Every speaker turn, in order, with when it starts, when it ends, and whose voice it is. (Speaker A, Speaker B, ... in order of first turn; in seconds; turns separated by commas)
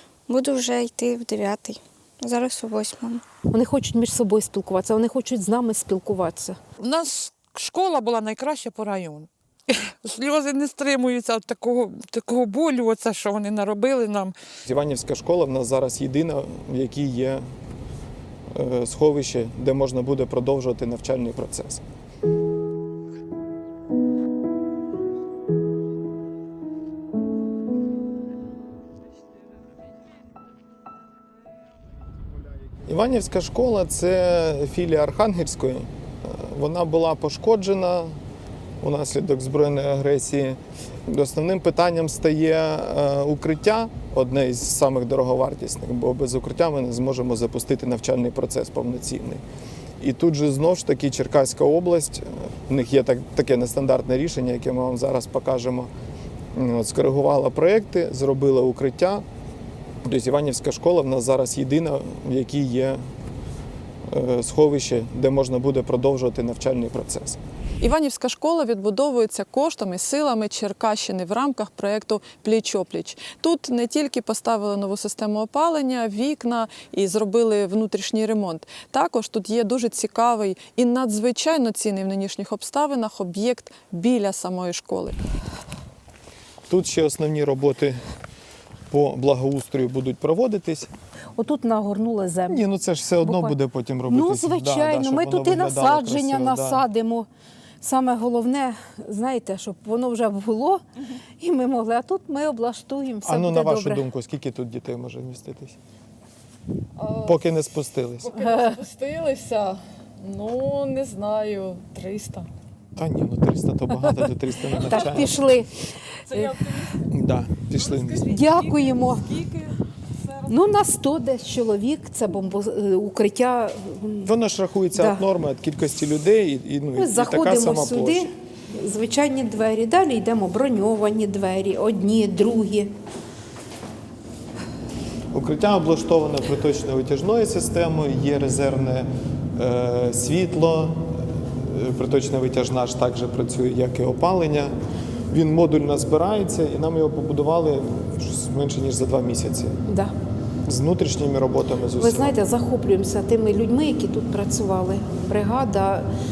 Speaker A: 0.3-3.2, Speaker B: 3.5-6.6, Speaker C: 6.8-14.3, Speaker D: 14.7-17.4, Speaker D: 18.5-21.8, Speaker D: 32.9-38.1, Speaker D: 38.8-49.4, Speaker D: 50.0-55.9, Speaker D: 56.5-59.2, Speaker D: 60.0-63.0, Speaker D: 64.1-67.4, Speaker E: 67.8-85.2, Speaker D: 86.7-88.0, Speaker D: 88.9-90.9, Speaker B: 91.4-92.6, Speaker D: 92.5-96.8, Speaker B: 93.2-93.5, Speaker B: 94.1-97.3, Speaker B: 97.8-100.8, Speaker B: 101.4-104.0, Speaker D: 103.2-105.8, Speaker E: 107.0-107.3, Speaker D: 107.2-108.4, Speaker E: 108.3-112.5, Speaker B: 108.4-108.8, Speaker D: 113.0-115.5, Speaker B: 114.8-116.5, Speaker D: 117.0-118.4, Speaker B: 118.3-119.4, Speaker E: 119.5-119.7, Speaker B: 120.5-124.3, Speaker D: 124.2-128.3, Speaker B: 125.0-125.2, Speaker B: 127.0-132.9, Speaker D: 135.3-144.7, Speaker D: 145.3-149.8, Speaker B: 149.9-150.1, Speaker D: 150.7-152.4, Speaker B: 152.0-156.1